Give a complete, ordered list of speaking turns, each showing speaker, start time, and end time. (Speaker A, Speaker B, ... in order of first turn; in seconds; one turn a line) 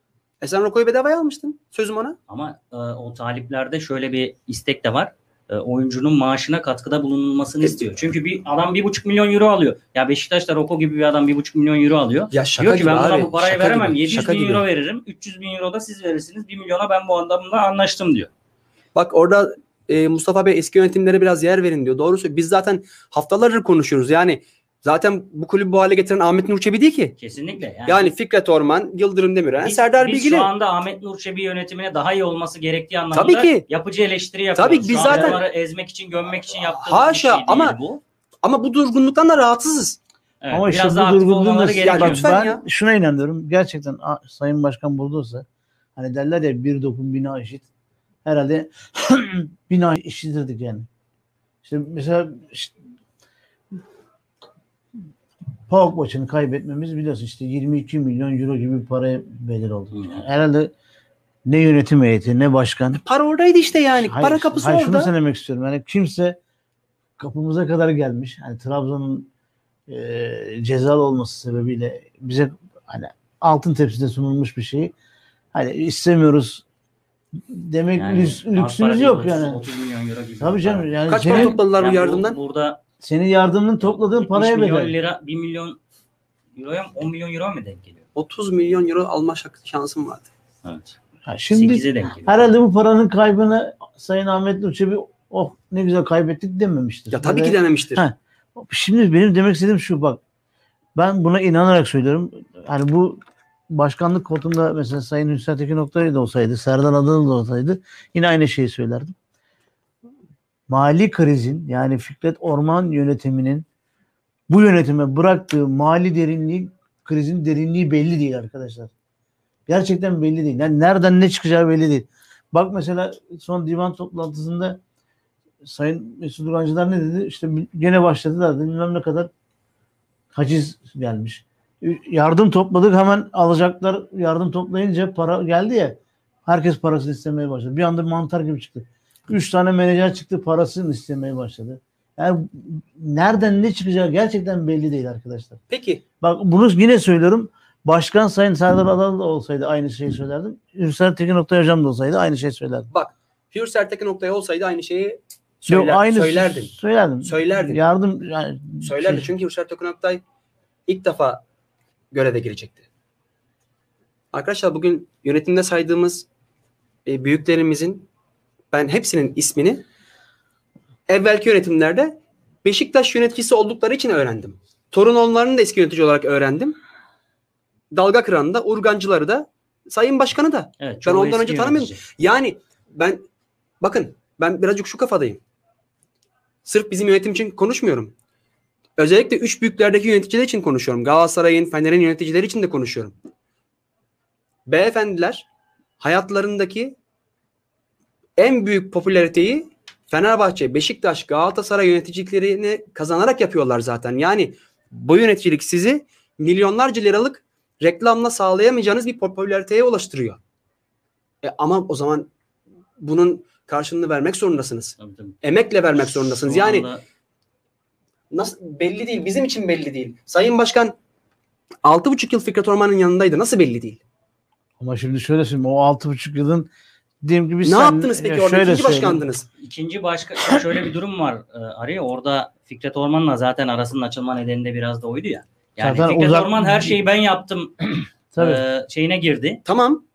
Speaker A: 0.4-2.2
Speaker B: 2.3-18.3
Speaker A: 12.3-14.6
Speaker A: 18.9-27.1
Speaker B: 27.2-28.1
Speaker A: 27.9-30.5
Speaker B: 29.6-38.0
Speaker A: 33.1-33.6
Speaker A: 34.5-35.4
Speaker A: 36.6-37.8
Speaker A: 38.4-40.0
Speaker B: 40.4-42.3
Speaker C: 40.5-47.6
Speaker A: 41.8-42.6
Speaker C: 48.2-50.9
Speaker C: 51.6-52.7
Speaker C: 55.7-60.7
Speaker B: 59.9-60.2
Speaker C: 61.5-63.0
Speaker A: 63.0-65.1
Speaker C: 64.0-66.4
Speaker C: 67.2-69.3
Speaker C: 69.9-74.9
Speaker C: 75.5-76.6
Speaker C: 77.4-79.6
Speaker B: 78.0-82.8
Speaker C: 80.4-81.6
Speaker A: 81.1-82.4
Speaker C: 83.0-84.9
Speaker B: 83.8-85.8
Speaker B: 86.5-88.0
Speaker A: 88.1-90.3
Speaker B: 90.6-91.0
Speaker C: 91.2-100.2
Speaker B: 91.5-92.5
Speaker A: 97.1-98.0
Speaker C: 101.0-103.2
Speaker C: 103.7-109.2
Speaker C: 110.7-113.7
Speaker C: 114.5-118.9
Speaker C: 119.7-124.8
Speaker C: 125.6-129.3
Speaker C: 130.3-145.6
Speaker A: 145.7-146.0
Speaker C: 146.2-152.9
Speaker A: 152.9-156.7
Speaker C: 155.7-159.3
Speaker A: 157.2-157.8
Speaker A: 158.8-160.2
Speaker A: 160.9-161.4
Speaker A: 162.1-162.8
Speaker A: 164.3-166.2
Speaker A: 167.1-168.1
Speaker A: 168.7-169.8
Speaker A: 171.1-176.8
Speaker A: 177.9-183.2
Speaker B: 180.8-182.0
Speaker A: 183.8-185.4
Speaker A: 186.6-188.1
Speaker A: 189.0-193.1
Speaker A: 194.7-195.4
Speaker A: 196.0-196.9
Speaker A: 198.4-210.4
Speaker A: 211.4-212.3
Speaker A: 213.0-216.8
Speaker B: 215.0-215.4
Speaker B: 216.2-217.0
Speaker A: 218.3-220.9
Speaker A: 221.8-224.0
Speaker C: 224.8-226.7
Speaker C: 227.2-229.2
Speaker A: 227.6-229.5
Speaker B: 229.6-239.6
Speaker C: 235.8-236.9
Speaker C: 238.3-238.6
Speaker A: 239.7-240.0